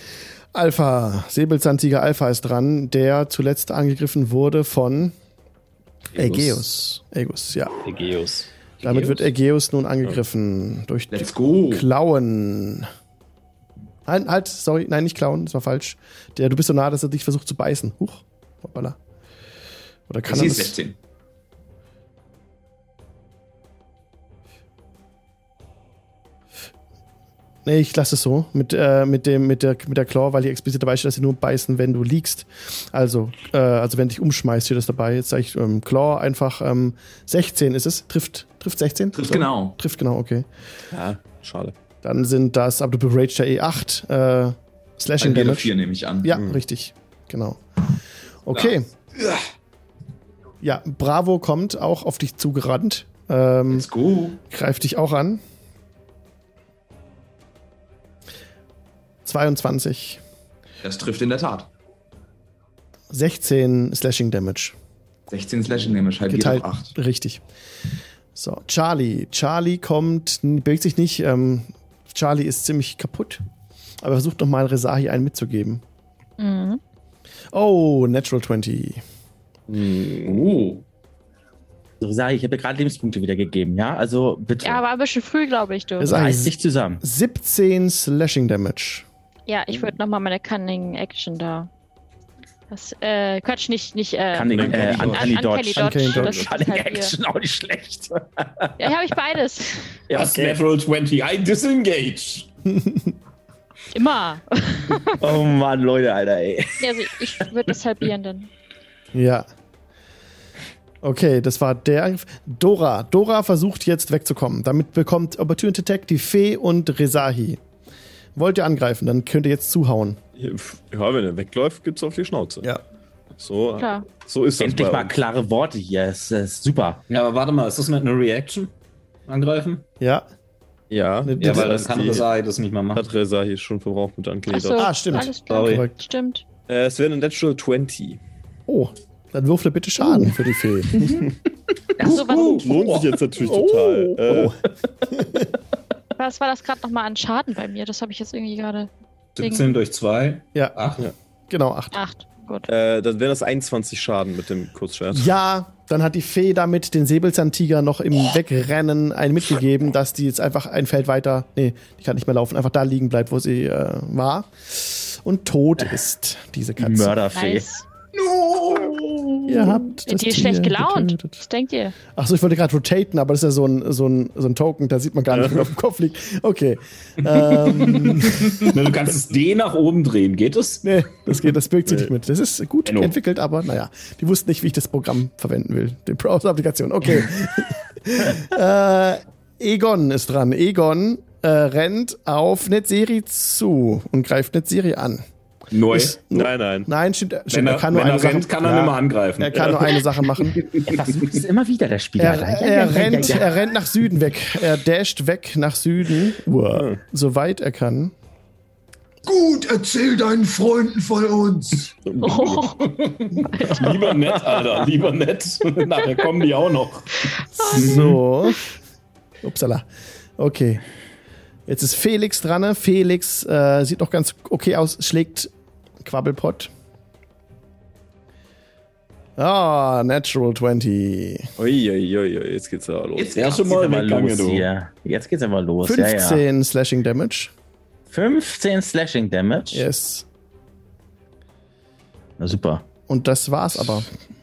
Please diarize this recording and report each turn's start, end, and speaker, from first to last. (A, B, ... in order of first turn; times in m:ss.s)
0:00.5-0:05.1 A
0:06.2-0:07.8 A
0:06.2-0:06.6 B
0:07.8-0:09.3 B
0:08.8-0:12.9 A
0:11.1-0:11.9 C
0:14.1-0:19.0 A
0:20.1-0:20.8 A
0:20.3-0:21.0 C
0:27.6-0:40.5 A
0:39.1-0:39.8 C
0:40.9-0:41.7 D
0:42.0-0:47.6 A
0:45.2-0:46.4 C
0:46.3-0:46.6 D
0:48.5-0:48.9 A
0:48.5-0:49.4 C
0:50.6-0:53.9 A
0:53.7-0:54.4 C
0:54.5-0:55.4 A
0:59.2-1:00.2 A
1:00.8-1:01.7 C
1:03.1-1:04.8 A
1:05.3-1:06.9 C
1:06.3-1:07.4 A
1:08.4-1:13.4 A
1:14.0-1:15.8 A
1:16.4-1:16.8 E
1:17.5-1:19.0 A
1:19.7-1:20.5 D
1:20.2-1:20.8 C
1:22.0-1:24.8 F
1:24.6-1:26.2 E
1:26.0-1:29.1 A
1:26.1-1:27.0 F
1:29.5-1:31.7 E
1:32.7-1:37.1 E
1:34.3-1:38.9 F
1:34.5-1:35.4 D
1:34.7-1:35.0 B
1:35.8-1:36.3 A
1:36.1-1:36.5 D
1:38.8-1:40.0 E
1:40.1-1:42.5 B
1:42.7-1:43.1 A
1:43.9-1:45.4 E
1:45.2-1:47.5 F
1:46.8-1:48.5 E
1:49.1-1:49.5 A
1:51.0-1:57.6 A
1:58.4-2:00.2 A
2:00.4-2:02.7 D
2:03.4-2:05.2 D
2:03.8-2:04.1 E
2:04.6-2:07.0 F
2:07.1-2:08.7 B
2:09.3-2:09.8 B
2:10.0-2:10.3 A
2:10.9-2:12.3 D
2:11.2-2:11.8 A
2:11.4-2:13.0 B
2:12.9-2:15.1 D
2:14.5-2:16.4 E
2:14.8-2:15.9 A
2:16.7-2:18.2 D
2:18.7-2:21.0 A
2:22.0-2:22.3 F
2:22.0-2:22.9 E
2:22.0-2:22.7 C
2:22.3-2:24.6 D
2:23.5-2:24.6 A
2:25.1-2:25.4 A
2:26.2-2:29.8 E
2:29.4-2:31.1 B
2:31.5-2:32.0 A
2:31.9-2:32.7 E
2:32.7-2:35.3 D
2:35.1-2:47.2 A
2:46.8-2:47.7 F
2:47.3-2:47.8 E
2:48.1-2:49.7 C
2:49.5-2:51.4 A
2:50.0-2:52.0 E
2:52.1-2:58.8 A
2:55.3-2:55.7 D
2:57.5-3:00.8 B
3:00.8-3:15.2 A
3:01.9-3:02.1 D
3:02.8-3:03.2 B
3:15.7-3:16.2 B
3:15.9-3:20.6 A
3:16.3-3:16.9 D
3:17.5-3:20.1 B
3:20.8-3:23.5 F
3:22.2-3:28.1 A
3:29.2-3:32.0 C
3:32.1-3:32.6 D
3:32.2-3:33.9 E
3:32.8-3:37.3 B
3:37.3-3:38.2 E
3:37.6-3:38.6 A
3:39.4-3:39.9 A
3:40.4-3:40.8 A
3:41.7-3:45.5 A
3:46.0-3:46.7 A
3:49.4-3:51.5 A
3:51.6-3:53.4 D
3:53.2-3:53.8 C
3:53.3-3:54.7 B
3:53.7-3:56.4 F
3:55.8-3:57.5 A
3:58.1-3:59.8 F
3:59.7-4:00.2 A
4:02.4-4:02.9 F
4:03.1-4:04.1 A